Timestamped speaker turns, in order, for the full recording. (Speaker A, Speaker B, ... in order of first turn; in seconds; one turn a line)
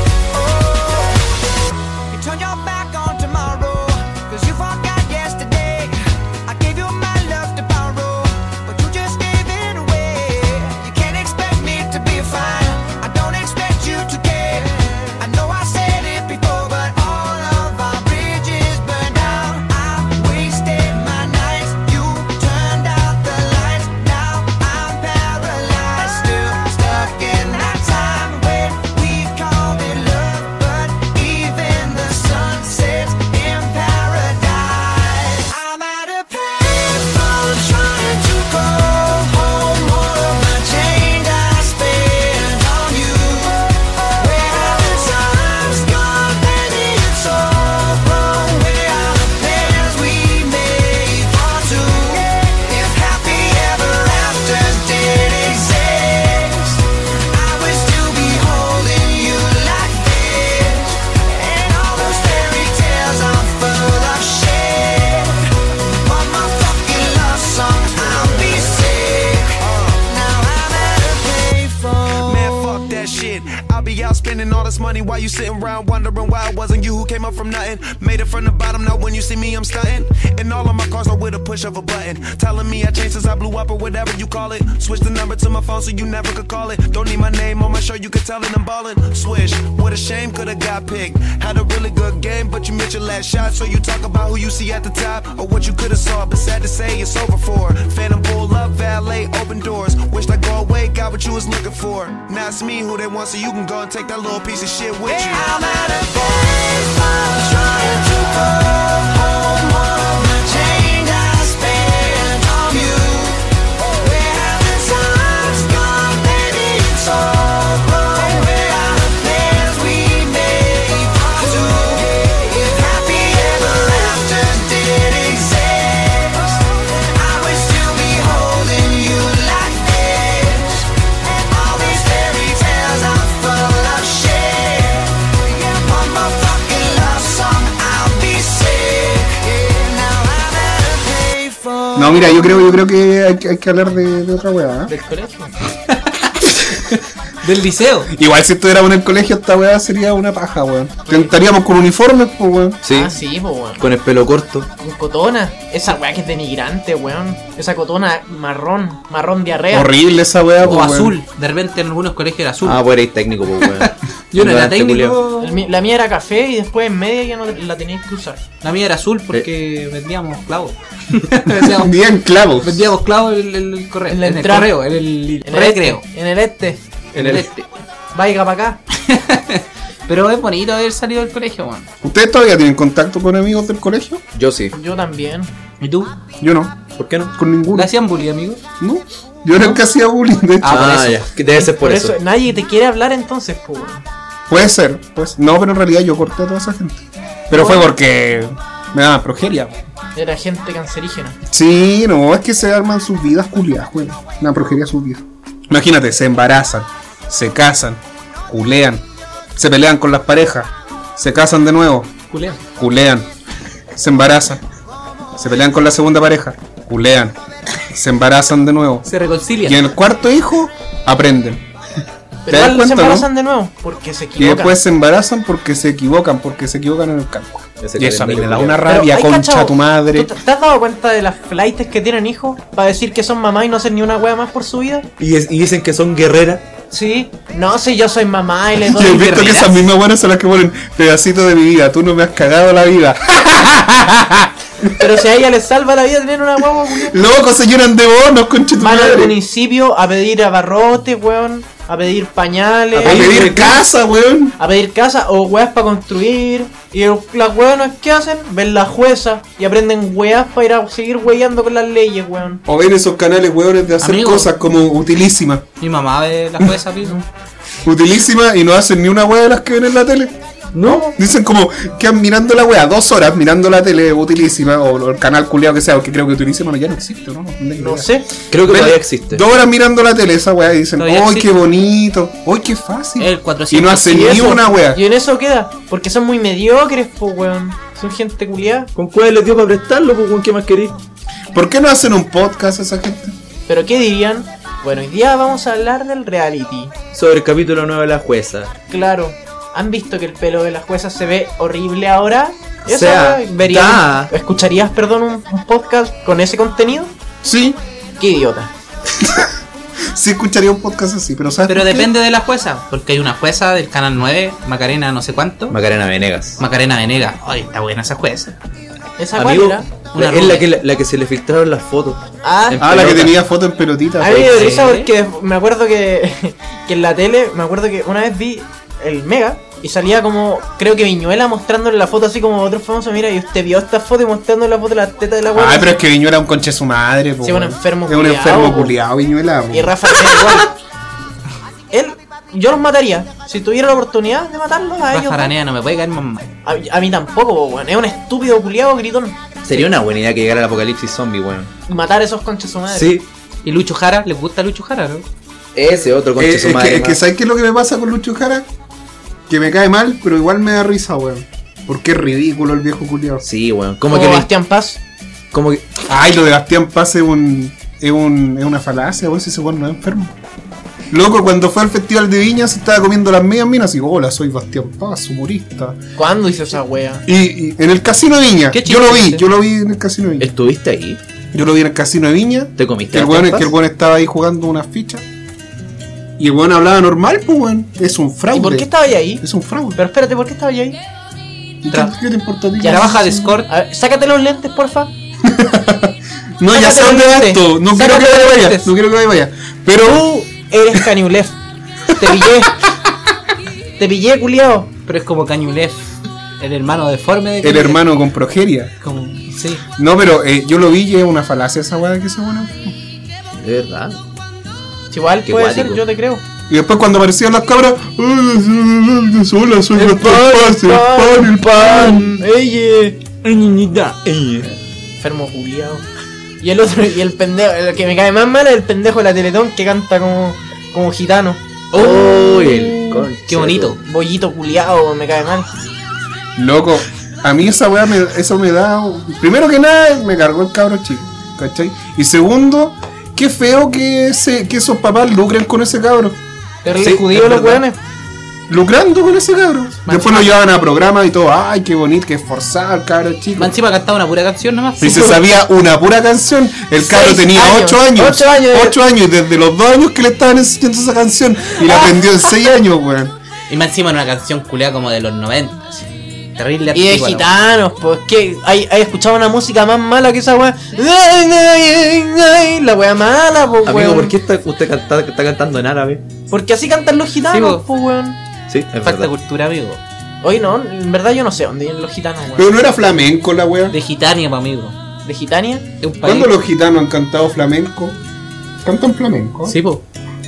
Speaker A: 0.3-1.3
Speaker A: 2.1-65.4
Speaker A: 66.0-72.9
Speaker B: 68.0-68.8
Speaker B: 69.6-70.0
Speaker B: 72.1-105.5
Speaker A: 105.1-142.6
Speaker C: 141.9-144.9
Speaker D: 144.9-145.5
Speaker E: 145.9-148.1
Speaker C: 148.1-152.8
Speaker F: 152.8-153.1
Speaker D: 152.9-153.8
Speaker F: 153.8-154.7
Speaker D: 154.8-159.9
Speaker C: 159.7-161.2
Speaker E: 160.7-162.8
Speaker F: 162.6-165.2
Speaker E: 163.6-165.6
Speaker D: 165.4-168.4
Speaker E: 168.6-171.9
Speaker C: 171.7-172.9
Speaker E: 172.6-176.0
Speaker D: 174.1-174.7
Speaker D: 175.4-176.8
Speaker E: 177.1-177.7
Speaker F: 177.2-177.5
Speaker D: 178.1-178.8
Speaker E: 178.9-181.9
Speaker C: 182.0-184.2
Speaker F: 184.3-184.8
Speaker D: 184.7-185.5
Speaker E: 185.8-186.1
Speaker C: 186.4-186.8
Speaker F: 187.0-187.3
Speaker C: 187.3-187.9
Speaker E: 187.7-188.6
Speaker C: 188.8-190.8
Speaker E: 189.5-189.8
Speaker E: 190.6-191.3
Speaker F: 190.7-192.2
Speaker D: 191.6-194.1
Speaker C: 194.5-199.8
Speaker D: 197.5-197.9
Speaker D: 200.2-201.4
Speaker C: 201.5-209.1
Speaker C: 209.6-212.1
Speaker E: 212.3-212.6
Speaker C: 212.8-213.3
Speaker C: 214.0-214.6
Speaker C: 215.4-219.1
Speaker E: 219.1-219.9
Speaker C: 219.6-221.6
Speaker D: 222.5-224.8
Speaker C: 222.5-223.3
Speaker C: 224.4-230.3
Speaker F: 227.8-228.9
Speaker D: 228.9-235.1
Speaker F: 235.2-236.7
Speaker D: 236.9-239.5
Speaker C: 238.8-245.1
Speaker E: 239.1-239.8
Speaker D: 245.0-247.2
Speaker C: 246.9-249.4
Speaker D: 248.8-253.6
Speaker F: 252.9-253.8
Speaker C: 253.0-254.6
Speaker D: 254.6-262.6
Speaker C: 262.7-265.6
Speaker E: 264.0-264.5
Speaker E: 265.8-267.2
Speaker C: 267.8-270.4
Speaker D: 270.8-271.1
Speaker C: 270.9-285.0
Speaker D: 277.8-278.3
Speaker F: 278.5-279.4
Speaker E: 281.0-281.6
Speaker E: 283.2-284.6
Speaker D: 284.1-288.9
Speaker F: 288.9-291.0
Speaker C: 291.5-293.3
Speaker D: 293.7-296.9
Speaker F: 297.1-298.7
Speaker D: 298.9-307.1
Speaker F: 302.9-304.3
Speaker C: 307.4-307.8
Speaker D: 308.2-308.7
Speaker C: 309.2-309.5
Speaker C: 310.1-312.1
Speaker E: 311.7-315.8
Speaker F: 315.7-316.6
Speaker E: 316.6-318.6
Speaker D: 319.2-319.9
Speaker F: 319.4-323.4
Speaker E: 320.1-320.7
Speaker D: 322.4-323.0
Speaker C: 322.8-324.8
Speaker D: 324.2-336.0
Speaker E: 324.5-325.1
Speaker C: 335.6-340.4
Speaker D: 337.4-339.0
Speaker D: 339.7-340.7
Speaker D: 341.9-345.5
Speaker E: 345.1-346.5
Speaker D: 346.6-349.9
Speaker F: 349.6-351.7
Speaker D: 351.9-353.1
Speaker F: 352.9-353.3
Speaker E: 353.6-355.2
Speaker F: 355.8-357.2
Speaker C: 356.4-358.7
Speaker C: 359.5-363.4
Speaker F: 363.4-364.5
Speaker D: 364.1-365.0
Speaker F: 365.5-365.9
Speaker C: 366.1-370.3
Speaker C: 371.1-376.0
Speaker D: 376.2-377.2
Speaker C: 377.3-380.5
Speaker E: 378.7-379.5
Speaker F: 380.4-381.2
Speaker C: 381.5-385.2
Speaker F: 382.8-383.7
Speaker C: 386.4-390.0
Speaker D: 388.5-391.0
Speaker C: 391.8-393.6
Speaker D: 392.8-395.1
Speaker E: 392.8-393.7
Speaker C: 395.4-400.4
Speaker D: 396.7-398.9
Speaker D: 400.0-401.6
Speaker D: 402.1-402.8
Speaker D: 404.0-404.9
Speaker E: 405.1-408.0
Speaker C: 407.6-408.9
Speaker E: 409.0-409.8
Speaker C: 410.0-412.9
Speaker F: 413.6-414.2
Speaker D: 415.1-416.4
Speaker F: 415.4-416.0
Speaker C: 416.7-422.4
Speaker D: 420.0-423.2
Speaker E: 423.4-424.2
Speaker F: 424.2-424.7
Speaker D: 425.2-426.1
Speaker D: 426.6-432.6
Speaker F: 431.9-434.0
Speaker E: 433.5-434.0
Speaker D: 434.0-435.7
Speaker C: 436.6-446.4
Speaker D: 446.8-448.0
Speaker F: 447.0-447.9
Speaker C: 448.7-453.8
Speaker D: 450.1-450.5
Speaker E: 453.6-455.4
Speaker C: 455.0-463.3
Speaker D: 457.0-459.0
Speaker E: 463.7-467.5
Speaker D: 466.9-474.4
Speaker F: 473.9-476.2
Speaker D: 476.5-478.4
Speaker E: 477.5-477.8
Speaker F: 478.7-479.3
Speaker E: 479.0-480.0
Speaker D: 480.4-482.7
Speaker C: 482.6-484.0
Speaker E: 483.9-485.0
Speaker D: 485.2-485.9
Speaker E: 486.0-486.5
Speaker C: 486.2-488.2
Speaker C: 488.8-489.8
Speaker E: 489.7-490.0